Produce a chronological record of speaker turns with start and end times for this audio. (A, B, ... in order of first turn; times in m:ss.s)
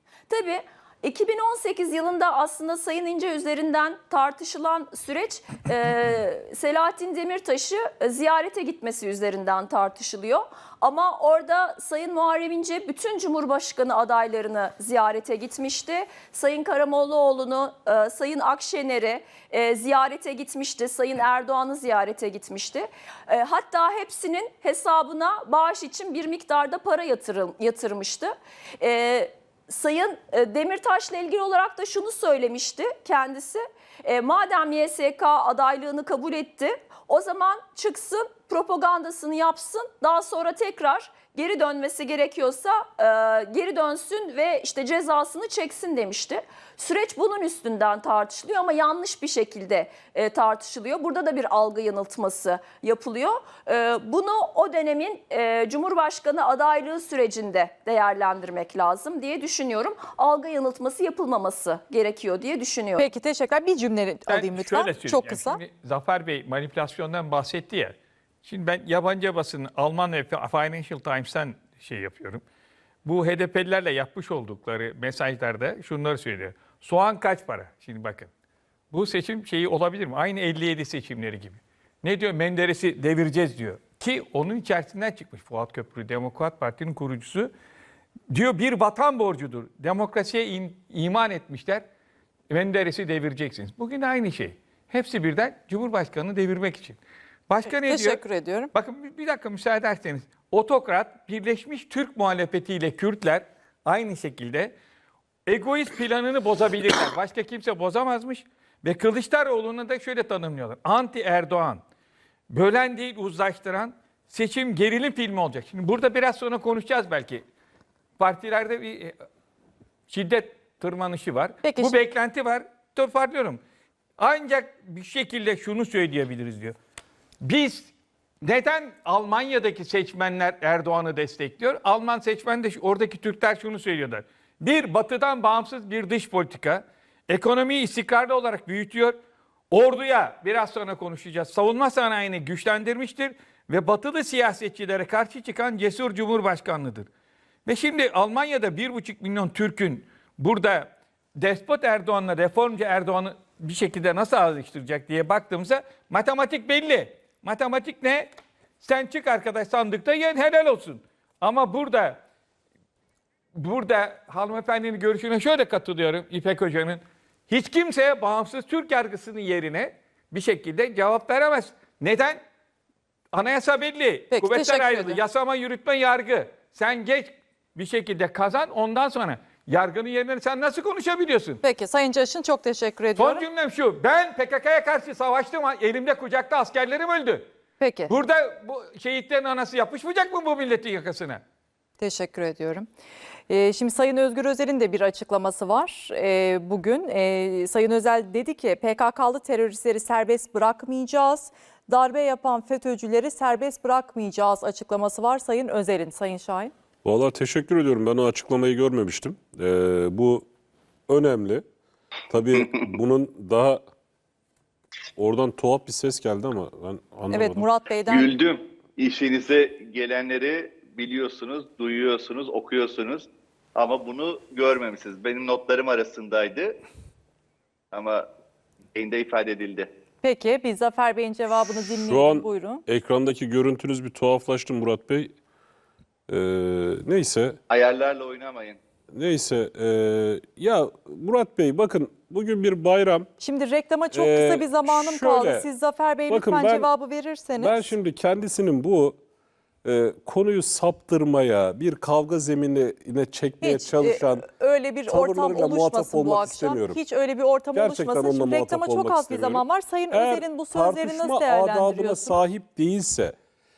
0:00.3-1:03.1 A
1:03.0-1:05.6 B
1:04.3-1:12.4 C
1:13.0-1:18.3 C
1:18.9-1:27.5 C
1:28.3-1:31.8 C
1:32.5-1:38.2 C
1:37.8-1:38.7 B
1:38.7-1:44.7 C
1:45.5-1:51.8 C
1:52.5-1:57.4 C
1:58.2-1:59.2 C
2:00.1-2:03.6 C
2:01.6-2:02.0 B
2:04.2-2:06.8 C
2:07.4-2:07.9 C
2:08.4-2:19.2 C
2:19.7-2:27.1 C
2:27.7-2:42.2 C
2:43.6-2:52.4 C
2:53.3-3:01.6 C
2:54.3-2:55.2 B
3:01.6-3:03.4 B
3:03.2-3:07.5 C
3:07.8-3:08.2 B
3:08.1-3:11.4 C
3:12.0-3:12.9 B
3:13.5-3:26.7 B
3:27.0-3:30.5 D
3:31.1-3:31.6 D
3:32.3-3:33.8 D
3:35.2-3:37.6 D
3:37.3-3:38.3 B
3:38.1-3:46.8 E
3:47.9-3:48.2 E
3:49.0-3:49.9 E
3:50.2-3:52.8 B
3:52.0-3:55.3 D
3:56.3-3:57.6 D
3:57.7-3:58.8 E
3:59.1-4:03.3 D
4:03.4-4:07.9 B
4:04.1-4:05.7 D
4:06.3-4:06.9 D
4:07.6-4:09.2 D
4:09.8-4:14.5 D
4:13.6-4:22.4 B
4:15.1-4:17.0 D
4:17.7-4:23.4 D